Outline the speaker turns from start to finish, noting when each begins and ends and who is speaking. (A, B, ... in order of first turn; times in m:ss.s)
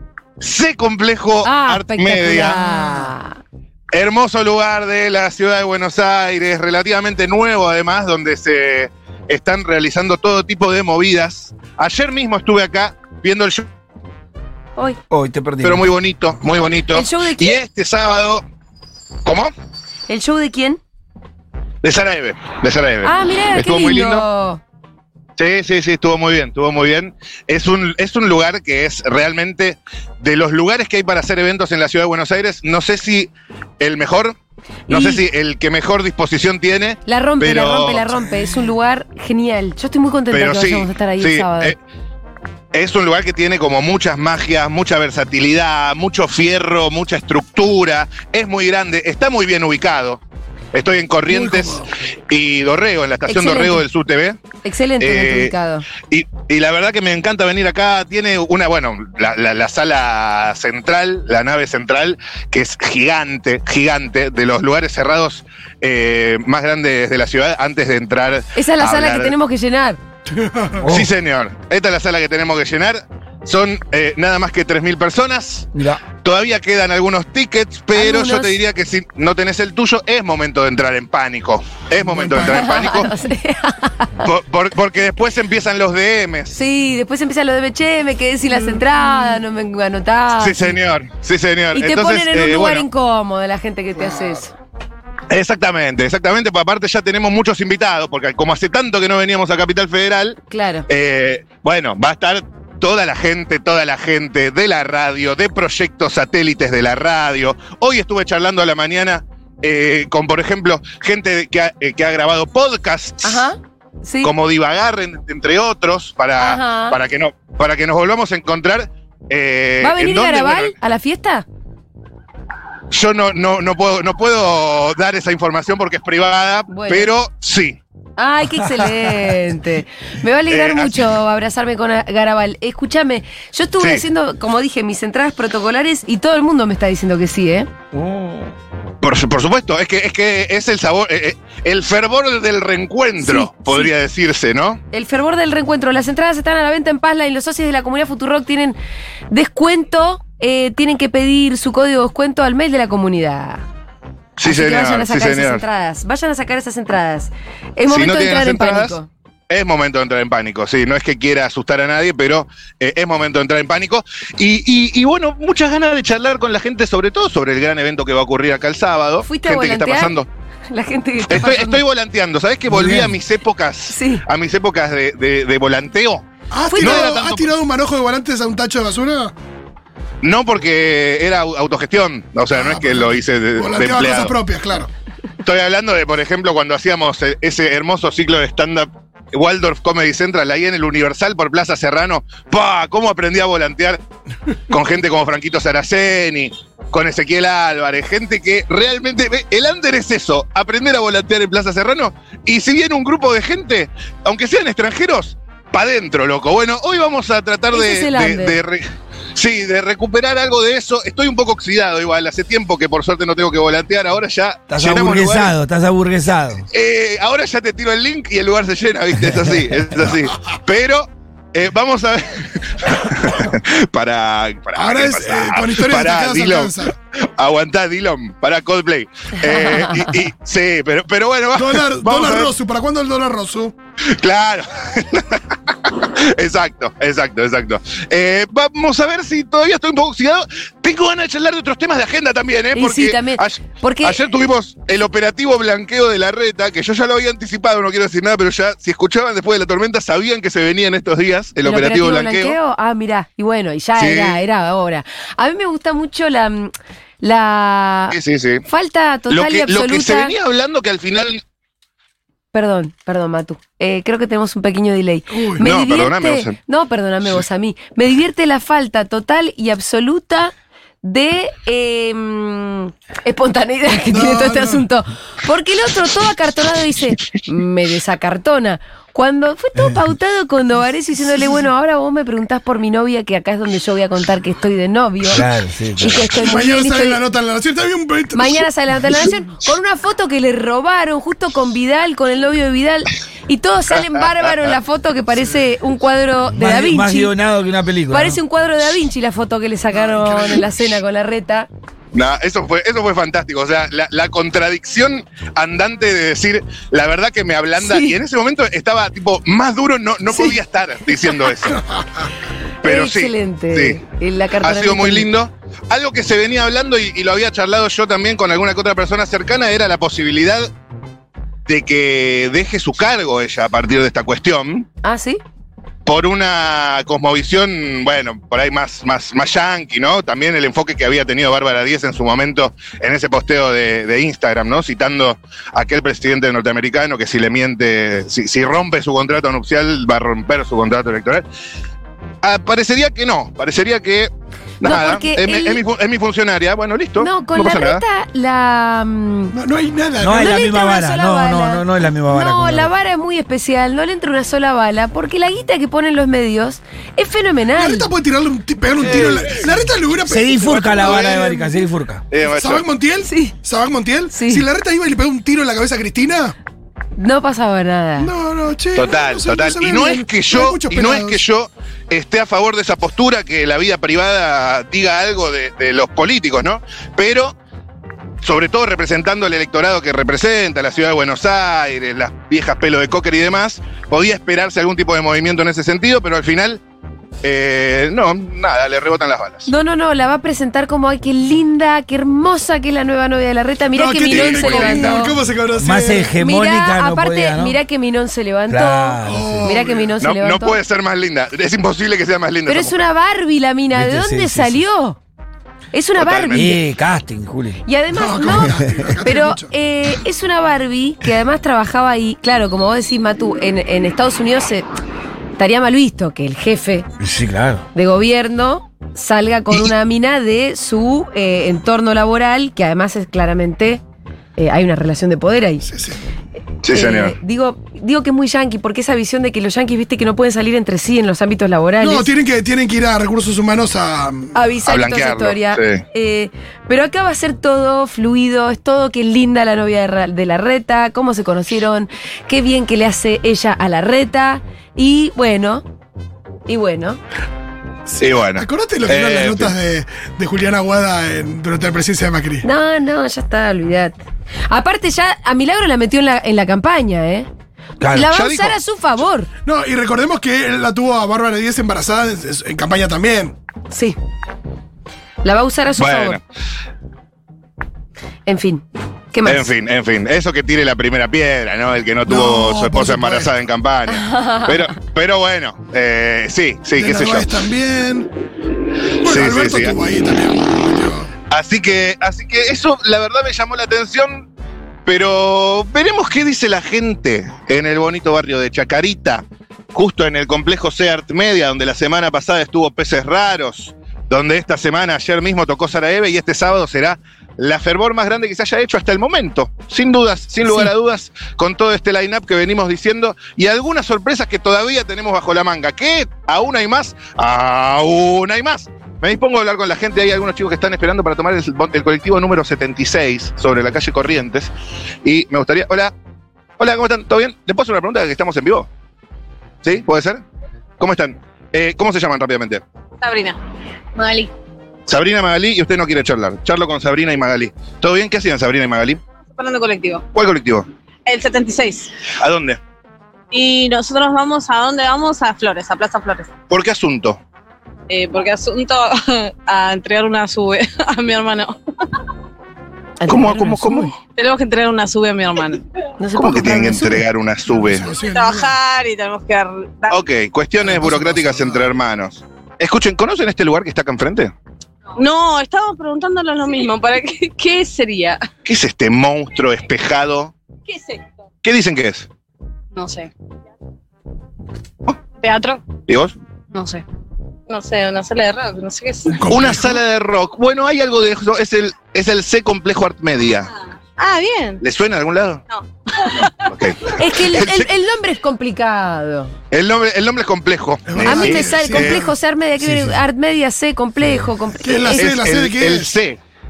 0:00.4-0:02.6 A
0:01.4-0:03.4 B
0:03.9-0:13.7 A
0:15.1-0:15.9 C
0:15.6-0:18.4 A
0:16.9-0:17.6 B
0:19.2-0:19.5 A
0:20.1-0:20.8 B
0:21.8-0:24.2 A
0:23.0-0:24.6 B
0:25.4-0:34.4 A
0:34.9-0:38.1 A
0:34.9-0:35.2 B
0:37.1-0:41.8 B
0:38.2-0:38.5 D
0:40.3-0:41.8 A
0:42.7-0:50.2 A
0:50.7-0:54.4 A
0:51.3-0:51.9 D
0:53.3-0:53.8 B
0:54.6-0:55.9 B
0:55.0-0:55.5 A
0:56.0-1:09.3 A
1:08.6-1:10.0 B
1:10.3-1:10.8 D
1:10.8-1:11.1 C
1:10.9-1:15.7 A
1:15.7-1:16.0 C
1:16.2-1:23.1 A
1:17.9-1:18.5 B
1:22.3-1:24.3 B
1:24.2-1:26.6 A
1:26.6-1:30.8 B
1:30.4-1:32.8 A
1:31.7-1:34.6 B
1:35.3-1:53.5 A
1:40.5-1:40.9 B
1:53.2-1:54.3 B
1:54.2-2:00.8 A
1:56.4-1:57.0 B
1:59.8-2:01.4 B
2:02.9-2:07.8 A
2:06.7-2:07.1 B
2:08.2-2:17.7 B
2:10.5-2:11.1 A
2:17.9-2:18.5 C
2:19.0-2:24.8 A
2:23.2-2:23.9 B
2:24.9-2:28.8 B
2:29.3-2:33.6 B
2:34.4-2:35.6 A
2:34.4-2:39.1 B
2:37.9-2:39.0 A
2:39.5-2:50.3 A
2:49.3-2:50.1 B
2:50.7-2:51.8 B
2:51.3-2:56.3 A
2:52.7-2:53.2 C
2:53.9-2:54.2 B
2:56.5-2:59.3 D
2:56.7-2:57.2 B
2:56.8-2:57.5 A
3:00.2-3:04.4 A
3:02.5-3:04.9 D
3:05.4-3:14.0 A
3:14.7-3:35.6 A
3:27.7-3:28.6 B
3:34.7-3:36.7 C
3:36.7-3:52.5 A
3:44.8-3:46.9 D
3:51.6-3:53.7 D
3:54.1-4:12.6 A
4:02.8-4:04.2 B
4:11.6-4:20.3 B
4:14.0-4:14.4 A
4:18.1-4:18.6 A
4:19.3-4:21.4 A
4:22.5-4:45.5 B
4:25.3-4:25.6 D
4:25.6-4:26.6 A
4:34.1-4:34.8 D
4:45.2-4:46.3 C
4:46.0-4:47.2 B
4:46.4-4:48.7 D
4:48.3-4:57.3 B
4:56.5-4:58.4 C
4:58.1-5:01.7 B
4:59.9-5:00.8 D
5:02.1-5:11.8 A
5:07.8-5:08.2 B
5:10.3-5:10.6 B
5:12.8-5:15.3 B
5:12.8-5:14.0 A
5:14.6-5:20.7 A
5:21.7-5:24.9 A
5:25.0-5:25.4 B
5:26.1-5:41.4 A
5:42.4-5:48.0 A
5:44.8-5:45.8 B
5:47.2-5:49.6 B
5:49.5-5:50.6 D
5:50.2-5:52.9 C
5:50.3-5:58.1 B
5:57.8-6:01.5 D
5:59.0-5:59.6 A
6:00.2-6:02.2 C
6:00.6-6:01.6 A
6:02.3-6:02.9 A
6:02.5-6:06.6 D
6:03.3-6:03.6 B
6:04.3-6:04.7 B
6:07.2-6:08.3 B
6:08.2-6:11.4 D
6:09.0-6:17.6 A
6:18.4-6:26.8 A
6:27.4-6:29.7 A
6:29.7-6:35.4 B
6:33.9-6:36.3 D
6:34.3-6:35.3 A
6:35.8-6:37.8 C
6:36.4-6:40.8 B
6:38.7-6:39.8 C
6:39.2-6:40.2 D
6:40.2-6:43.0 A
6:42.7-6:45.2 B
6:43.9-6:44.8 C
6:45.9-6:46.8 B
6:46.2-6:46.7 A
6:46.5-6:47.8 C
6:47.8-6:54.9 B
6:48.1-6:49.7 D
6:48.6-6:49.2 C
6:55.6-6:57.1 B
6:57.2-6:57.9 C
6:57.9-7:04.0 B
7:04.6-7:05.8 B
7:05.8-7:06.2 D
7:06.8-7:07.4 A
7:06.9-7:12.3 B
7:12.0-7:14.5 D
7:14.5-7:25.8 B
7:14.9-7:16.0 A
7:26.7-7:27.2 B
7:28.2-7:29.7 A
7:28.6-7:32.7 D
7:32.6-7:34.2 B
7:34.7-7:37.5 B
7:38.0-7:38.3 C
7:38.1-7:38.8 A
7:38.1-7:39.5 B
7:39.6-7:43.6 D
7:43.9-7:44.2 B
7:45.4-7:46.4 B
7:46.0-7:46.4 A
7:48.5-7:49.7 B
7:49.4-7:57.6 A
7:52.3-7:53.5 D
7:54.1-7:54.8 B
7:57.0-7:58.3 D
7:59.2-8:01.3 D
7:59.2-8:00.0 A
8:01.5-8:04.5 A
8:05.1-8:34.7 A
8:35.2-8:36.1 A
8:36.8-8:38.9 A
8:39.8-8:40.4 A
8:41.0-8:42.8 A
8:43.2-8:43.6 E
8:44.2-8:44.5 E
8:45.1-8:49.2 A
8:49.6-8:50.2 E
8:50.3-8:50.9 A
8:51.3-8:52.1 E
8:52.4-8:52.8 A
8:53.5-8:56.5 E
8:56.7-8:57.4 A
8:58.1-9:01.8 E
9:03.2-9:04.1 B
9:03.3-9:04.1 A
9:04.4-9:05.8 E
9:06.2-9:07.2 B
9:06.4-9:08.1 A
9:07.7-9:08.7 D
9:08.1-9:10.2 E
9:10.1-9:14.5 A
9:10.8-9:11.9 D
9:15.2-9:18.5 E
9:18.6-9:20.5 A
9:20.9-9:21.2 E
9:21.6-9:22.3 A
9:22.9-9:23.3 E
9:25.4-9:25.8 E
9:26.1-9:26.4 A
9:26.7-9:27.0 E
9:27.7-9:29.5 E
9:29.4-9:30.0 D
9:29.5-9:33.7 A
9:34.2-9:34.8 E
9:34.8-9:35.6 A
9:35.7-9:36.7 E
9:36.6-9:37.9 A
9:37.2-9:39.5 B
9:39.7-9:42.2 A
9:41.1-9:42.3 D
9:41.2-9:45.3 B
9:42.8-9:43.2 C
9:44.8-9:46.1 D
9:45.2-9:46.4 A